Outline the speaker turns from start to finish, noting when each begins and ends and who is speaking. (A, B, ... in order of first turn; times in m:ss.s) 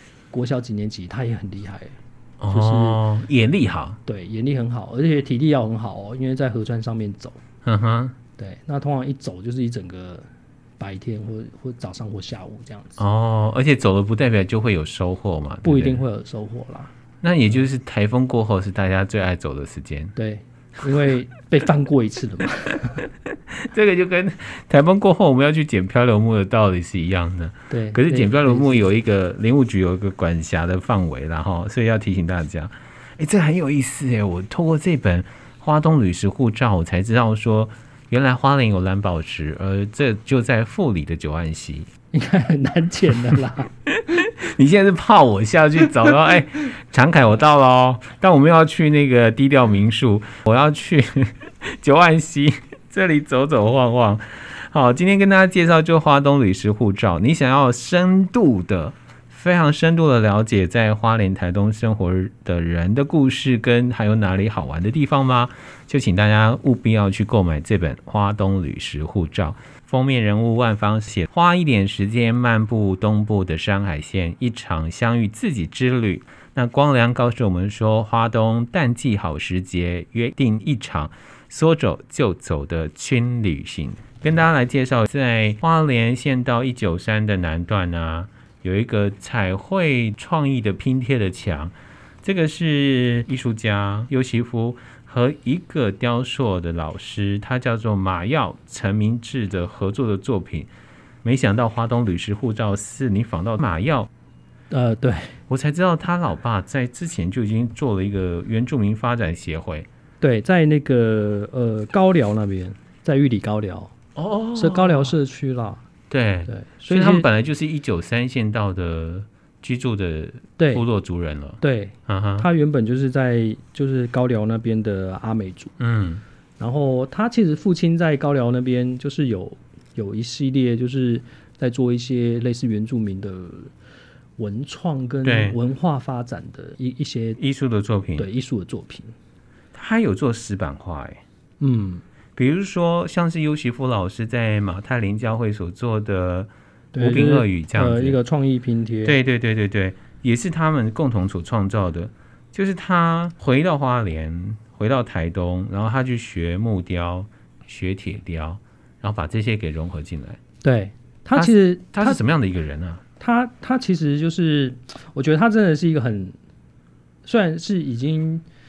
0:00.3-0:02.0 A
0:02.4-0:04.0 B
0:02.5-0:03.0 A
0:04.0-0:07.4 A
0:07.6-0:08.2 B
0:08.4-0:10.2 A
0:10.8-0:13.0 A
0:13.0-0:16.0 B
0:15.6-0:16.9 A
0:17.2-0:20.1 B
0:20.2-0:23.0 A
0:23.5-0:41.9 B
0:27.7-0:28.9 A
0:42.1-0:43.7 A
0:43.9-1:40.7 B
1:41.2-1:44.1 B
1:44.7-1:45.4 A
1:45.5-1:49.9 B
1:50.2-1:53.9 A
1:54.2-1:55.1 B
1:54.5-1:55.8 A
1:56.1-2:02.5 B
1:56.5-1:57.2 A
2:00.6-2:00.8 A
2:01.6-2:05.7 A
2:05.8-2:06.2 B
2:06.6-2:13.7 A
2:14.4-2:17.4 A
2:15.2-2:15.6 B
2:17.4-2:18.3 B
2:18.2-2:19.1 A
2:19.7-2:21.2 B
2:21.6-2:22.0 A
2:22.4-2:28.2 B
2:26.9-2:29.2 A
2:29.0-2:40.4 B
2:40.6-2:42.2 A
2:41.4-2:43.0 B
2:43.2-2:46.3 A
2:47.2-2:48.4 A